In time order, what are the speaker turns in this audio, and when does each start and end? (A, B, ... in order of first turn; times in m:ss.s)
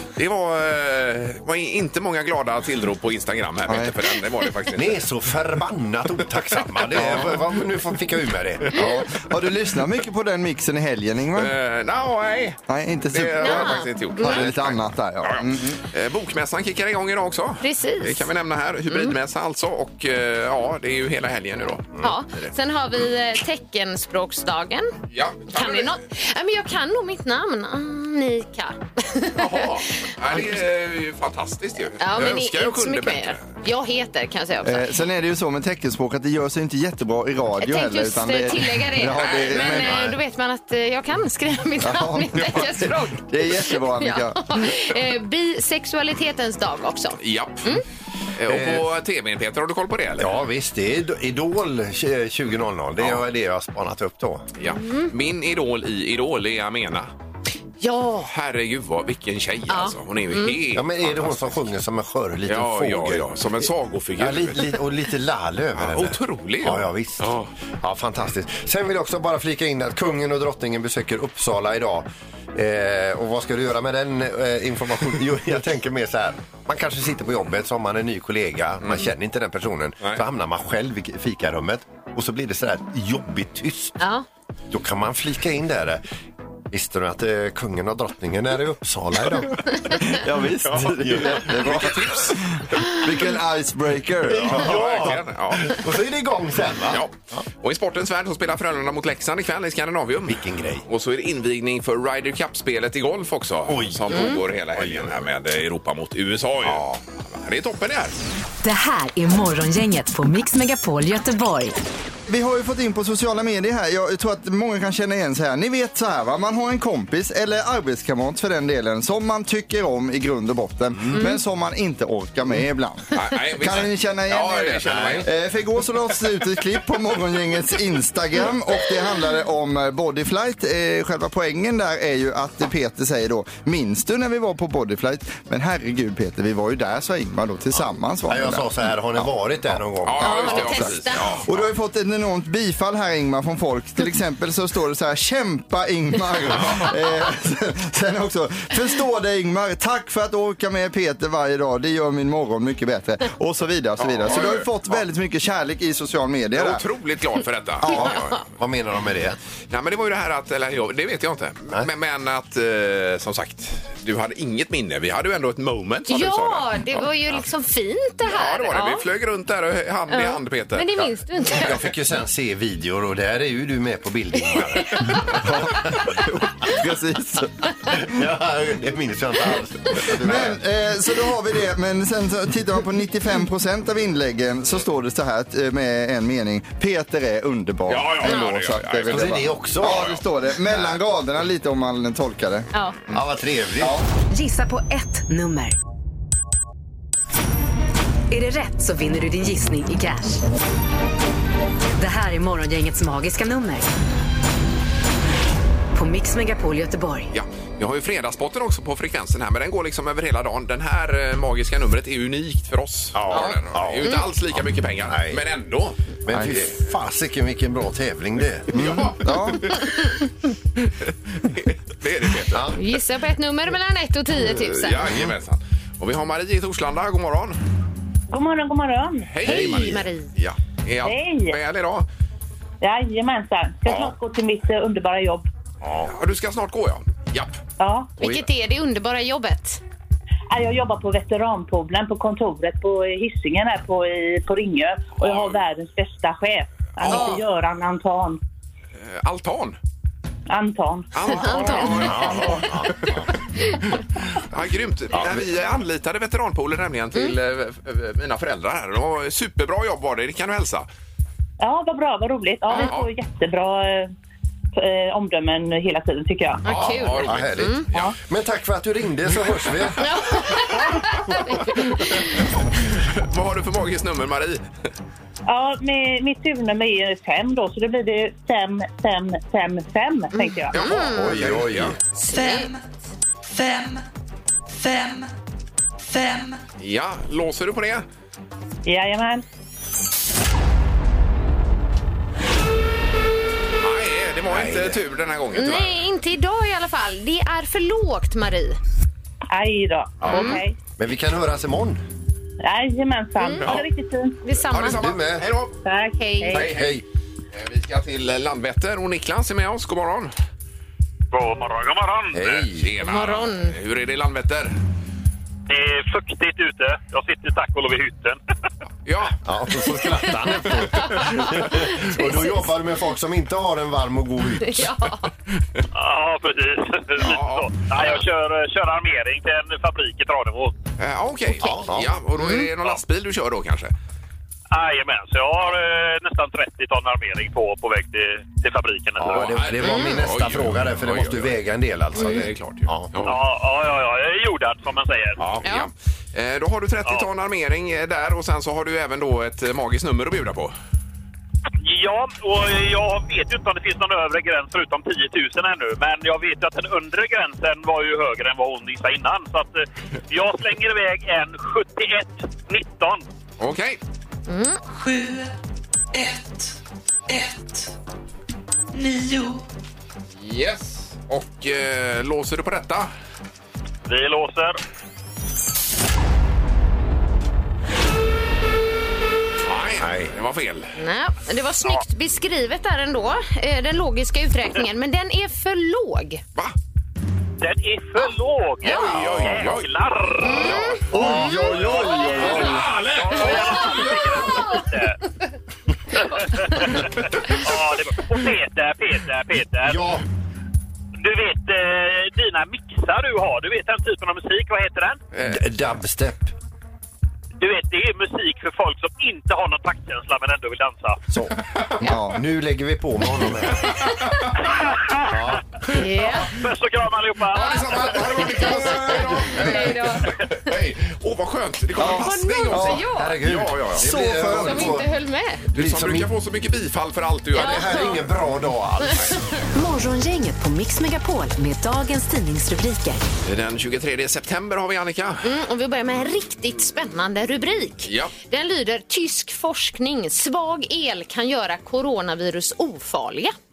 0:00.2-0:05.0 A
0:03.7-0:03.9 B
0:04.7-0:09.0 C
0:06.7-0:07.4 A
0:07.0-0:07.4 B
0:08.7-0:11.5 B
0:11.4-0:22.5 A
0:12.7-0:15.8 B
0:13.4-0:14.5 D
0:17.6-0:18.3 D
0:22.0-0:25.0 D
0:25.1-0:26.0 A
0:25.5-0:30.4 D
0:29.4-0:33.4 A
0:32.0-0:34.8 D
0:34.6-0:40.1 B
0:37.6-0:47.8 D
0:39.1-0:39.8 A
0:39.6-0:40.2 C
0:41.8-0:44.4 B
0:47.2-0:47.8 A
0:48.4-0:50.3 A
0:48.5-0:48.9 C
0:50.2-0:54.5 C
0:53.0-0:53.2 A
0:54.6-0:57.1 A
0:54.6-0:55.1 D
0:57.8-0:58.3 D
0:58.3-1:01.6 A
0:59.7-1:00.6 D
1:00.7-1:03.3 C
1:02.5-1:04.8 A
1:04.2-1:24.0 C
1:05.8-1:07.5 A
1:18.8-1:19.1 A
1:24.0-1:24.3 D
1:24.7-1:26.0 C
1:26.7-1:29.8 C
1:30.0-1:34.8 B
1:30.7-1:32.4 A
1:30.7-1:32.0 C
1:34.2-1:37.4 C
1:34.5-1:35.8 A
1:36.9-1:48.2 A
1:40.3-1:40.8 C
1:43.7-1:45.2 C
1:44.1-1:44.4 D
1:48.6-1:51.8 E
1:52.3-2:19.2 B
2:01.1-2:01.4 D
2:03.1-2:05.3 A
2:04.8-2:05.3 C
2:17.7-2:21.0 C
2:20.0-2:21.7 A
2:20.2-2:21.4 D
2:20.5-2:20.9 B
2:21.4-2:36.8 B
2:26.5-2:26.9 A
2:34.0-2:34.7 A
2:36.5-2:38.4 A
2:37.8-2:39.4 C
2:39.7-2:47.0 A
2:46.1-2:49.0 D
2:48.3-2:51.1 A
2:50.1-2:51.8 D
2:51.5-2:55.3 C
2:54.5-2:55.2 D
2:55.4-2:58.0 B
2:57.9-3:00.6 C
3:00.1-3:12.7 B
3:07.9-3:10.2 A
3:08.2-3:08.5 D
3:09.1-3:11.0 C
3:13.1-3:14.0 C
3:13.8-3:14.1 B
3:14.3-3:15.8 E
3:18.3-3:20.4 E
3:22.0-3:23.9 E
3:25.9-3:27.3 E
3:27.3-3:36.0 A
3:33.1-3:35.4 C
3:36.3-3:39.1 C
3:36.3-3:36.6 B
3:38.7-3:40.0 A
3:38.7-3:39.7 B
3:40.8-3:42.8 A
3:42.5-3:42.8 C
3:42.8-3:45.1 D
3:44.4-3:47.6 A
3:48.3-3:49.6 F
3:49.3-3:52.1 A
3:49.4-3:50.3 D
3:49.4-3:50.0 C
3:51.0-3:51.6 F
3:52.8-3:55.5 F
3:55.8-3:57.6 A
3:57.8-3:58.1 F
3:58.2-3:59.8 D
4:00.5-4:08.4 F
4:05.2-4:05.6 A
4:07.0-4:07.4 A
4:07.1-4:07.4 D
4:09.0-4:09.8 A
4:10.5-4:11.8 F
4:11.1-4:13.2 A
4:11.3-4:12.7 D
4:11.7-4:13.3 C
4:14.4-4:20.9 A
4:15.1-4:15.5 C
4:21.6-4:24.1 F
4:22.7-4:23.1 A
4:24.8-4:26.6 F
4:26.6-4:27.9 D
4:26.7-4:28.1 A
4:26.7-4:30.6 C
4:30.0-4:32.4 D
4:32.0-4:34.6 A
4:35.5-4:41.0 F
4:40.3-4:41.4 D
4:40.7-4:42.0 A
4:40.8-4:42.0 C
4:42.3-4:42.7 D
4:42.3-4:42.8 G
4:43.5-4:44.0 G
4:44.8-4:45.3 G
4:46.1-4:46.6 G
4:46.8-4:48.0 A
4:48.9-4:49.4 F
4:53.8-4:56.0 A
4:54.5-4:55.0 C
4:55.5-4:58.8 D
4:59.5-5:00.8 F
5:00.2-5:00.6 A
5:00.3-5:00.6 D
5:01.0-5:02.0 C
5:02.6-5:04.4 F
5:03.4-5:03.8 D
5:04.4-5:05.0 D
5:04.7-5:05.8 A
5:04.9-5:05.5 C
5:05.8-5:06.8 F
5:06.1-5:06.7 D
5:06.5-5:07.0 A
5:06.6-5:07.0 C
5:07.5-5:10.3 A
5:11.3-5:12.6 H
5:12.3-5:12.9 C
5:12.7-5:14.8 A
5:13.0-5:13.7 D
5:15.7-5:18.4 H
5:19.1-5:19.4 A
5:19.4-5:24.9 C
5:20.3-5:22.7 D
5:24.6-5:25.3 D
5:25.9-5:30.8 H
5:27.2-5:28.2 A
5:31.0-5:33.9 A
5:31.6-5:32.1 C
5:32.4-5:32.7 D
5:34.7-5:39.5 H
5:39.2-5:43.1 C
5:39.4-5:41.6 A
5:39.8-5:40.2 D
5:42.1-5:43.3 A
5:43.2-5:45.4 H
5:45.4-5:45.6 C
5:45.5-5:50.7 A
5:45.6-5:45.9 D
5:51.8-6:03.2 H
6:03.6-6:04.0 A
6:04.5-6:04.8 D
6:04.9-6:05.5 G
6:06.1-6:06.7 G
6:07.3-6:07.9 G
6:08.9-6:09.6 G
6:10.4-6:13.1 A
6:14.1-6:14.8 H
6:19.6-6:21.0 A
6:20.0-6:20.3 C
6:21.0-6:26.4 D
6:27.6-6:35.2 H
6:28.8-6:29.9 A
6:29.2-6:29.7 C
6:30.4-6:32.6 D
6:30.5-6:31.0 A
6:31.1-6:32.8 B
6:32.4-6:34.3 A
6:36.2-6:40.2 H
6:39.8-6:40.2 C
6:41.2-6:45.2 H
6:45.3-6:45.6 A
6:45.4-6:46.5 C
6:47.6-6:51.2 H
6:51.3-6:54.0 C
6:52.0-6:52.4 B
6:54.7-6:58.4 H
6:55.3-6:55.6 C
6:55.9-6:56.5 D
6:57.5-7:04.1 A
6:58.4-7:00.4 D
7:02.0-7:03.0 B
7:02.0-7:03.4 D
7:02.8-7:05.1 C
7:04.0-7:05.0 B
7:04.1-7:05.6 D
7:05.7-7:06.3 C
7:05.7-7:08.0 A
7:07.5-7:09.4 C
7:07.5-7:08.2 D
7:09.0-7:09.4 D
7:09.7-7:13.2 E
7:13.4-7:15.5 A
7:15.4-7:23.6 D
7:18.0-7:18.3 A